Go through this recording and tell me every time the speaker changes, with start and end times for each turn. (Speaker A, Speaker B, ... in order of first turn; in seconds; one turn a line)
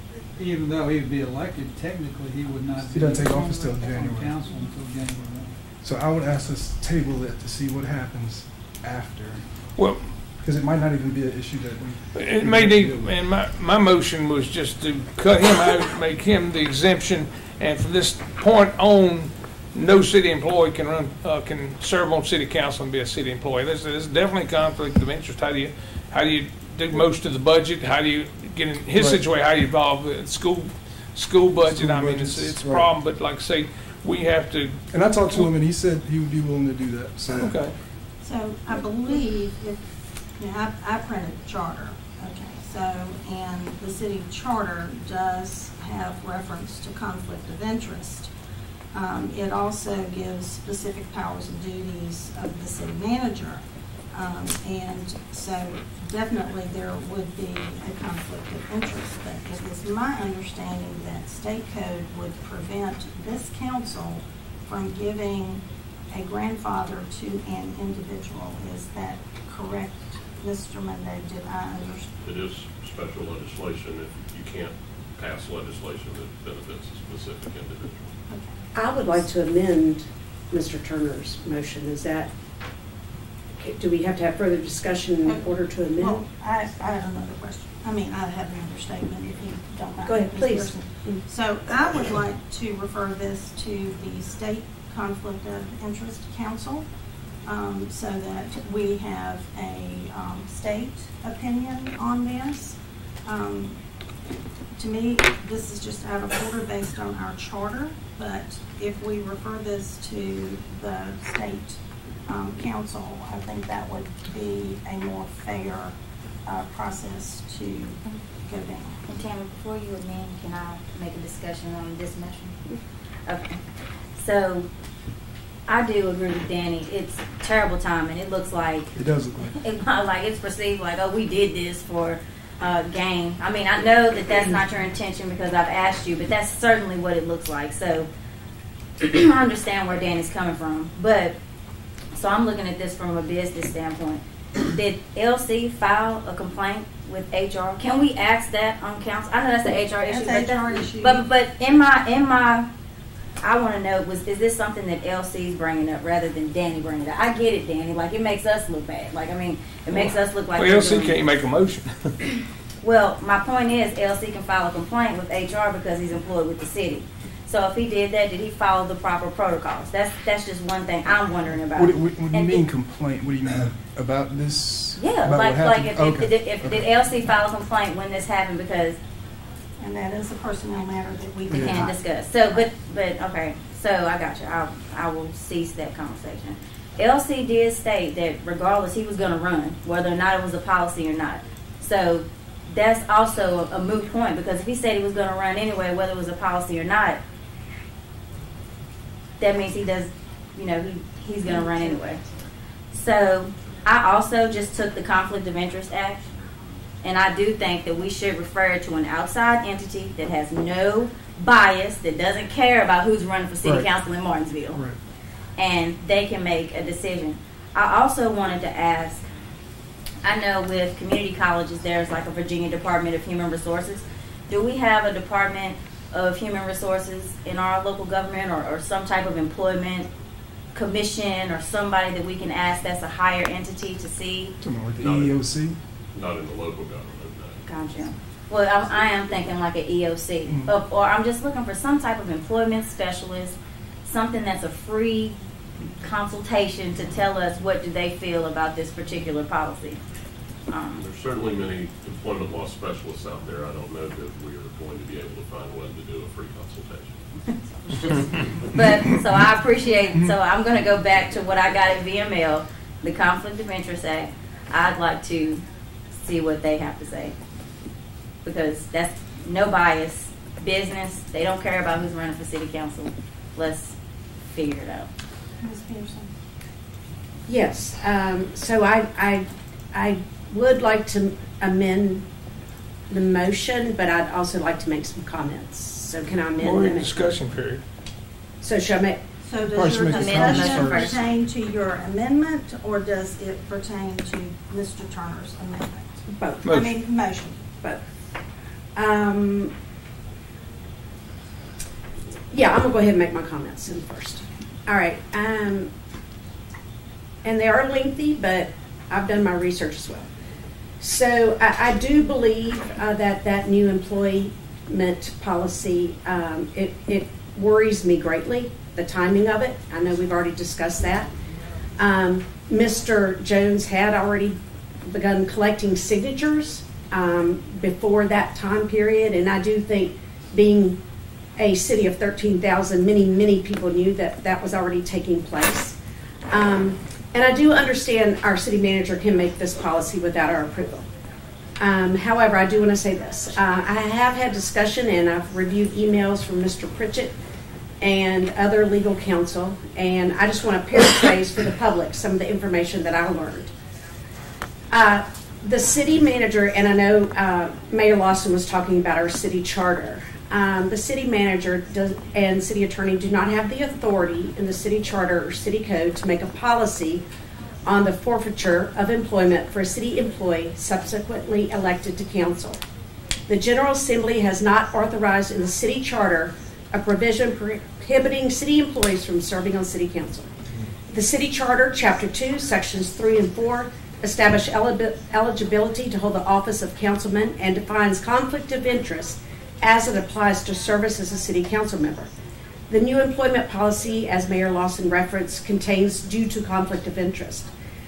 Speaker A: 0.2-5.6
Speaker B: 2.9-4.6
Speaker B: 5.8-9.5
Speaker C: 9.8-10.1
Speaker B: 10.4-13.2
Speaker C: 12.2-35.5
Speaker B: 28.9-29.2
Speaker B: 31.6-32.9
Speaker B: 34.9-37.6
Speaker C: 37.4-37.8
Speaker D: 38.2-48.3
Speaker D: 48.9-72.1
Speaker E: 72.2-78.1
Speaker D: 78.3-78.6
Speaker F: 78.8-82.3
Speaker F: 83.6-86.2
Speaker D: 85.2-96.9
Speaker F: 90.1-91.2
Speaker D: 97.5-103.8
Speaker D: 104.8-119.0
Speaker G: 119.1-122.6
Speaker G: 123.3-123.6
Speaker G: 124.2-124.7
Speaker G: 125.7-128.9
Speaker B: 128.9-129.6
Speaker G: 129.6-138.1
Speaker G: 139.0-141.4
Speaker G: 142.2-152.7
Speaker D: 150.1-151.2
Speaker G: 153.4-161.2
Speaker C: 159.9-162.2
Speaker G: 162.8-172.6
Speaker B: 171.8-176.8
Speaker G: 175.0-179.0
Speaker D: 179.8-182.0
Speaker G: 181.5-197.2
Speaker B: 181.5-181.9
Speaker G: 199.4-202.2
Speaker G: 202.9-206.2
Speaker G: 207.0-214.8
Speaker B: 213.6-213.9
Speaker B: 214.7-215.0
Speaker G: 215.6-219.2
Speaker G: 220.2-230.1
Speaker G: 230.7-234.6
Speaker B: 234.6-235.8
Speaker E: 235.0-235.4
Speaker E: 236.1-237.6
Speaker G: 237.7-245.4
Speaker B: 240.5-240.7
Speaker G: 246.0-250.0
Speaker G: 250.7-251.0
Speaker E: 250.9-257.2
Speaker G: 257.9-265.6
Speaker G: 266.2-267.4
Speaker G: 268.4-274.0
Speaker G: 274.6-275.1
Speaker D: 275.6-276.3
Speaker F: 277.5-282.2
Speaker F: 283.1-287.2
Speaker C: 286.6-287.8
Speaker F: 288.6-289.2
Speaker D: 289.4-297.6
Speaker B: 289.7-291.2
Speaker G: 290.1-291.2
Speaker F: 296.3-296.7
Speaker C: 296.6-296.9
Speaker F: 299.0-299.7
Speaker F: 302.5-305.9
Speaker F: 307.4-310.3
Speaker F: 311.0-321.3
Speaker F: 322.0-331.0
Speaker F: 331.6-335.9
Speaker F: 336.5-341.1
Speaker F: 341.8-347.3
Speaker F: 348.0-353.7
Speaker F: 354.9-367.2
Speaker F: 367.9-372.8
Speaker F: 373.5-380.5
Speaker F: 381.1-392.3
Speaker F: 392.9-397.7